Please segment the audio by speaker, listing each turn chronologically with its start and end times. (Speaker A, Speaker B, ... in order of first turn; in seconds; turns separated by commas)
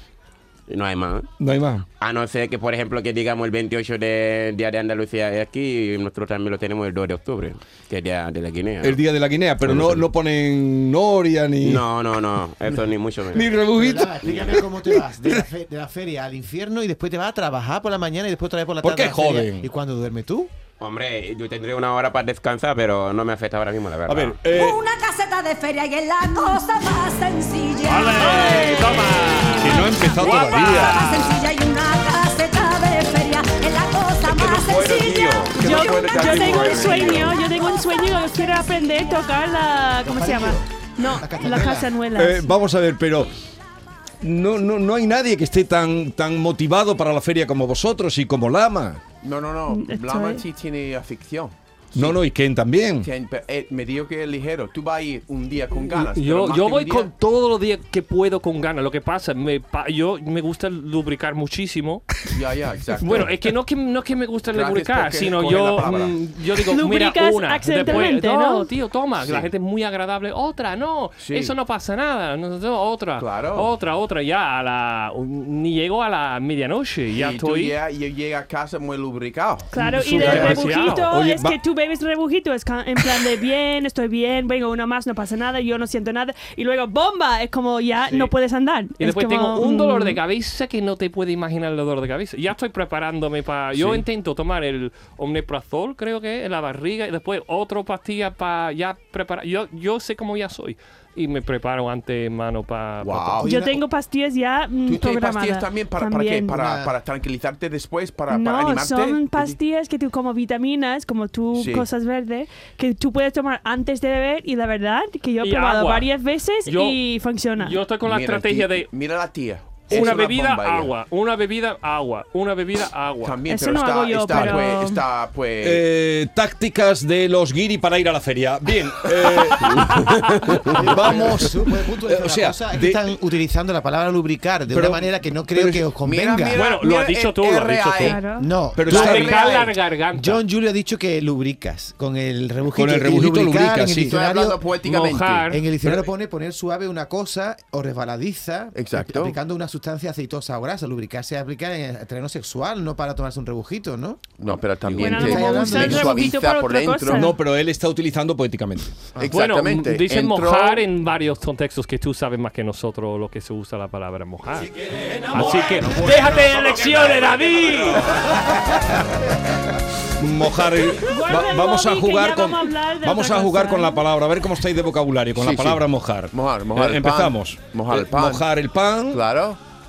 Speaker A: 0.7-1.3, Speaker B: 1.4-1.8, Speaker A: 2.0-9.0, Speaker B: 8.8-11.8, Speaker A: 9.6-10.0, Speaker A: 11.6-13.5, Speaker B: 13.3-15.4, Speaker C: 13.7-20.5, Speaker A: 14.2-14.6, Speaker B: 18.8-19.6, Speaker A: 20.8-24.4, Speaker B: 24.1-24.8, Speaker D: 24.5-28.8, Speaker E: 27.8-31.3, Speaker F: 28.2-30.3, Speaker B: 29.6-31.1, Speaker D: 30.8-35.5, Speaker A: 34.3-37.4, Speaker F: 35.5-42.5, Speaker G: 35.6-36.8, Speaker C: 40.0-41.9, Speaker B: 42.1-43.3, Speaker B: 44.2-49.0, Speaker G: 49.2-52.2, Speaker F: 49.7-50.4, Speaker B: 51.9-53.1, Speaker G: 53.0-57.1, Speaker E: 55.9-62.1, Speaker G: 62.3-63.3, Speaker E: 63.0-77.8, Speaker G: 64.5-66.2, Speaker F: 66.6-68.7, Speaker G: 69.2-69.5, Speaker G: 71.2-71.5, Speaker G: 73.2-73.7, Speaker G: 77.1-79.7, Speaker F: 79.7-90.2, Speaker E: 79.8-81.1, Speaker B: 79.8-81.5, Speaker E: 89.0-103.4, Speaker G: 103.0-103.5, Speaker C: 103.4-103.8, Speaker F: 103.4-106.6, Speaker G: 104.8-109.6, Speaker C: 106.5-106.9, Speaker F: 108.3-117.8, Speaker G: 111.5-111.8, Speaker E: 115.4-116.1, Speaker E: 116.6-117.0, Speaker E: 117.5-118.9, Speaker G: 118.0-120.9, Speaker E: 119.9-123.4, Speaker G: 123.2-125.9, Speaker F: 123.5-125.0, Speaker B: 125.6-133.0, Speaker C: 130.6-136.6, Speaker B: 134.7-135.9, Speaker G: 136.0-138.2, Speaker E: 136.5-138.2, Speaker F: 138.0-138.5, Speaker C: 138.3-139.1, Speaker B: 138.7-139.5, Speaker E: 138.8-140.4, Speaker G: 138.9-139.8, Speaker C: 140.1-144.6, Speaker B: 142.7-144.1, Speaker G: 144.0-145.5, Speaker E: 144.8-145.7, Speaker C: 145.5-154.2, Speaker G: 148.7-149.4, Speaker G: 154.4-157.3, Speaker C: 155.0-156.2, Speaker F: 155.0-157.4, Speaker B: 157.1-159.0, Speaker G: 159.1-160.8, Speaker E: 159.3-164.7, Speaker B: 164.7-166.5, Speaker E: 165.3-168.2, Speaker A: 165.9-168.8, Speaker B: 168.3-179.2, Speaker F: 171.0-174.1, Speaker G: 175.3-178.5, Speaker G: 179.1-179.6